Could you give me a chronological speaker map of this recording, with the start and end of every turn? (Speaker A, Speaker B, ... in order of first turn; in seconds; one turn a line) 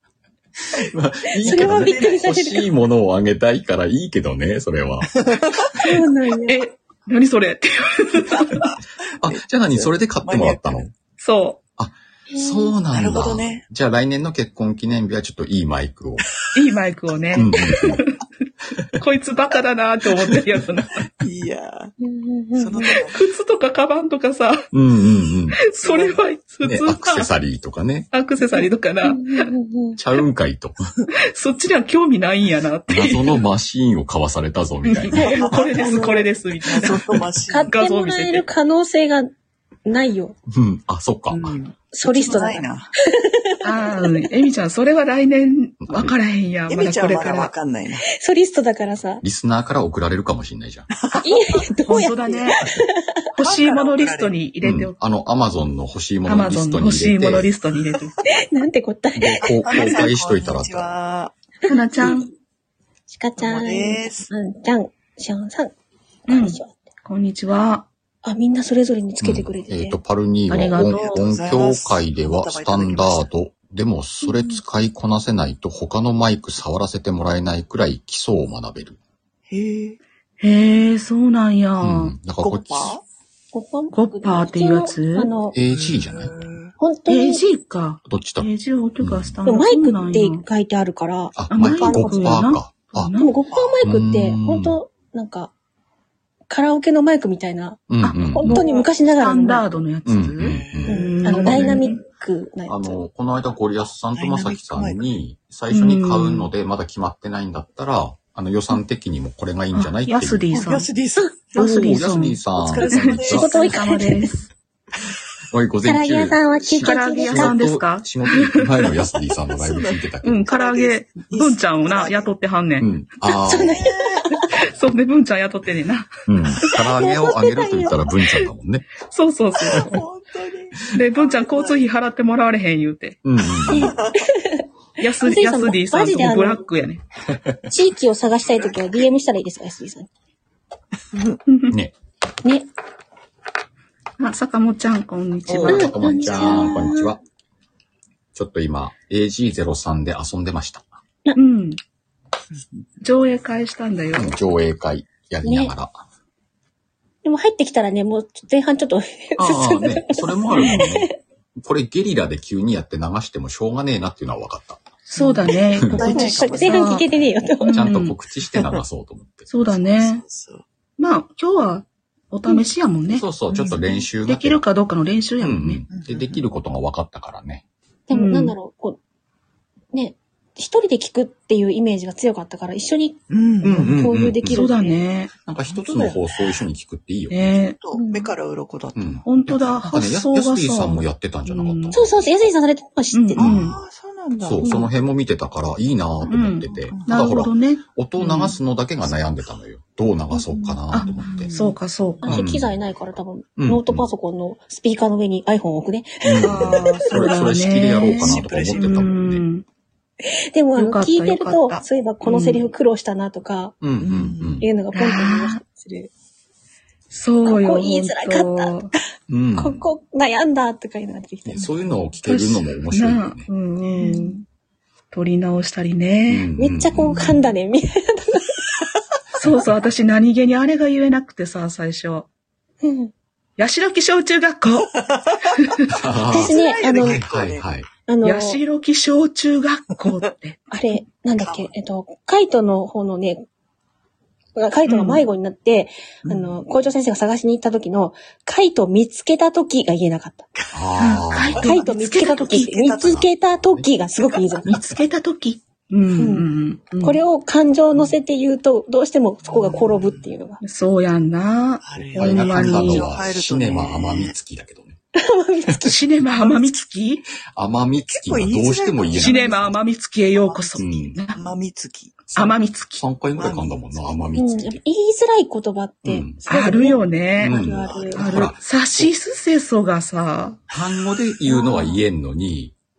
Speaker A: 0.9-5.1
Speaker B: 1.4-2.6
Speaker C: 1.4-2.2
Speaker C: 5.2-5.8
Speaker B: 5.8-6.6
Speaker D: 6.5-8.7
Speaker A: 9.2-10.9
Speaker C: 9.2-10.8
Speaker D: 11.2-11.6
Speaker A: 11.8-16.2
Speaker B: 12.3-12.7
Speaker C: 12.9-13.6
Speaker D: 16.5-18.2
Speaker A: 17.4-18.0
Speaker D: 19.0-21.0
Speaker C: 21.2-21.9
Speaker B: 22.0-23.1
Speaker C: 22.6-23.2
Speaker D: 23.1-24.7
Speaker A: 24.7-25.6
Speaker D: 25.6-27.3
Speaker C: 25.8-26.2
Speaker A: 26.6-28.1
Speaker D: 28.1-29.5
Speaker B: 29.0-30.0
Speaker A: 30.0-30.9
Speaker D: 31.2-33.4
Speaker A: 32.9-35.3
Speaker D: 34.8-38.4
Speaker B: 35.1-36.3
Speaker C: 35.2-36.0
Speaker C: 36.7-37.7
Speaker B: 37.5-39.3
Speaker B: 39.8-40.4
Speaker A: 40.5-41.6
Speaker C: 41.3-42.9
Speaker B: 41.9-44.1
Speaker D: 43.6-47.5
Speaker A: 45.8-46.1
Speaker C: 46.7-48.0
Speaker B: 48.1-49.2
Speaker A: 49.2-50.9
Speaker C: 51.0-52.6
Speaker D: 51.2-52.6
Speaker B: 51.2-53.2
Speaker D: 53.3-54.9
Speaker C: 53.4-54.3
Speaker A: 54.6-57.5
Speaker D: 56.2-58.2
Speaker B: 58.3-60.1
Speaker A: 59.1-60.9
Speaker C: 59.6-61.3
Speaker D: 61.6-62.3
Speaker B: 63.1-65.7
Speaker C: 63.4-64.3
Speaker B: 66.3-66.7
Speaker D: 66.3-67.9
Speaker B: 68.2-70.0
Speaker A: 69.2-79.0
Speaker D: 70.5-71.2
Speaker C: 70.9-73.3
Speaker C: 79.5-80.0
Speaker D: 80.4-82.1
Speaker A: 81.8-83.0
Speaker C: 82.4-83.0
Speaker B: 83.5-85.5
Speaker D: 83.9-85.3
Speaker A: 85.5-86.4
Speaker C: 85.7-86.7
Speaker B: 86.8-87.4
Speaker D: 87.1-90.4
Speaker A: 88.1-88.5
Speaker A: 89.0-89.4
Speaker B: 89.5-92.4
Speaker A: 91.3-93.1
Speaker D: 91.5-93.4
Speaker B: 93.2-95.5
Speaker C: 93.5-93.8
Speaker A: 93.8-94.8
Speaker B: 96.5-99.7
Speaker A: 97.9-98.6
Speaker D: 98.0-102.0
Speaker A: 100.0-101.8
Speaker C: 100.3-101.8
Speaker B: 100.9-103.0
Speaker A: 102.7-110.5
Speaker C: 104.1-105.0
Speaker D: 105.7-106.5
Speaker D: 109.7-110.9
Speaker C: 110.5-111.6
Speaker A: 111.5-113.5
Speaker D: 111.5-114.5
Speaker C: 112.5-114.0
Speaker B: 113.3-114.3
Speaker A: 115.5-120.5
Speaker B: 115.8-117.6
Speaker D: 116.8-118.7
Speaker C: 119.5-122.3
Speaker D: 120.2-122.9
Speaker A: 122.8-123.8
Speaker B: 123.4-124.5
Speaker C: 123.7-124.4
Speaker D: 124.5-126.1
Speaker A: 126.3-128.8
Speaker B: 126.9-128.0
Speaker D: 129.0-130.0
Speaker C: 129.7-131.8
Speaker D: 130.9-133.2
Speaker A: 133.2-133.9
Speaker B: 133.7-136.6
Speaker C: 133.7-134.2
Speaker D: 135.0-137.0
Speaker B: 137.7-140.1
Speaker C: 141.1-141.4
Speaker D: 141.5-141.7
Speaker D: 144.2-146.9
Speaker A: 145.5-147.2
Speaker B: 145.7-147.1
Speaker A: 148.3-150.8
Speaker D: 151.3-151.8
Speaker C: 152.5-152.8
Speaker D: 153.0-154.3
Speaker A: 154.1-156.0
Speaker B: 155.4-155.7
Speaker B: 157.2-161.1
Speaker A: 159.4-164.8
Speaker D: 165.1-167.1
Speaker C: 165.2-167.2
Speaker B: 165.9-167.8
Speaker D: 167.6-168.2
Speaker A: 167.7-169.5
Speaker C: 168.5-168.8
Speaker D: 169.5-170.2
Speaker C: 169.7-170.6
Speaker D: 171.0-173.2
Speaker A: 173.1-174.6
Speaker C: 173.5-174.0
Speaker D: 174.2-175.8
Speaker A: 175.4-177.6
Speaker C: 175.9-176.4
Speaker B: 178.1-179.0
Speaker D: 178.1-178.5
Speaker B: 179.9-183.2
Speaker C: 183.3-184.0
Speaker A: 183.6-184.6
Speaker B: 183.7-185.0
Speaker D: 184.4-185.3
Speaker A: 185.4-187.6
Speaker C: 185.7-186.2
Speaker D: 187.3-187.8
Speaker C: 187.8-189.2
Speaker B: 187.9-188.3
Speaker A: 188.9-192.3
Speaker D: 189.2-192.0
Speaker B: 191.9-193.5
Speaker D: 193.1-193.8
Speaker A: 193.4-193.8
Speaker C: 193.4-194.7
Speaker A: 194.4-201.5
Speaker D: 194.6-194.9
Speaker D: 196.3-198.6
Speaker C: 196.9-197.4
Speaker C: 200.3-201.7
Speaker D: 200.9-202.4
Speaker B: 202.2-207.4
Speaker A: 202.3-202.8
Speaker A: 203.6-204.1
Speaker A: 206.2-209.4
Speaker D: 206.4-209.6
Speaker C: 208.0-209.1
Speaker B: 210.5-213.7
Speaker D: 210.8-212.7
Speaker A: 213.8-214.7
Speaker C: 214.0-214.6
Speaker B: 214.6-216.1
Speaker D: 214.9-215.6
Speaker D: 217.1-218.9
Speaker B: 217.4-218.8
Speaker A: 219.3-219.8
Speaker B: 219.6-221.7
Speaker A: 221.4-223.5
Speaker D: 222.2-224.4
Speaker B: 224.0-224.3
Speaker D: 225.1-226.5
Speaker A: 226.3-227.2
Speaker B: 226.6-228.6
Speaker C: 227.1-227.5
Speaker D: 229.3-232.3
Speaker B: 232.8-233.1
Speaker D: 233.6-235.0
Speaker C: 235.0-237.6
Speaker D: 235.5-235.9
Speaker A: 235.9-237.9
Speaker B: 236.3-237.2
Speaker B: 238.1-238.6
Speaker D: 238.2-240.6
Speaker B: 240.7-243.4
Speaker C: 241.4-241.7
Speaker B: 244.5-250.5
Speaker D: 244.9-245.2
Speaker C: 246.2-246.6
Speaker C: 250.6-253.2
Speaker A: 250.7-251.6
Speaker D: 251.0-252.7
Speaker B: 251.6-254.8
Speaker A: 253.0-253.9
Speaker D: 254.7-257.2
Speaker B: 256.1-256.5
Speaker B: 257.0-260.6
Speaker C: 259.5-260.3
Speaker D: 260.6-263.1
Speaker C: 261.8-264.3
Speaker A: 262.1-265.0
Speaker B: 265.1-266.0
Speaker D: 265.8-267.2
Speaker C: 266.4-266.6
Speaker A: 267.5-269.7
Speaker C: 268.1-269.7
Speaker D: 269.1-271.4
Speaker C: 270.4-270.8
Speaker A: 270.8-271.2
Speaker C: 271.3-272.2
Speaker A: 272.3-274.8
Speaker D: 272.3-273.0
Speaker C: 273.4-274.3
Speaker B: 274.4-278.4
Speaker A: 276.0-276.4
Speaker D: 276.4-277.6
Speaker C: 277.4-278.5
Speaker A: 277.4-279.1
Speaker D: 278.1-280.6
Speaker A: 280.7-282.7
Speaker B: 281.5-282.0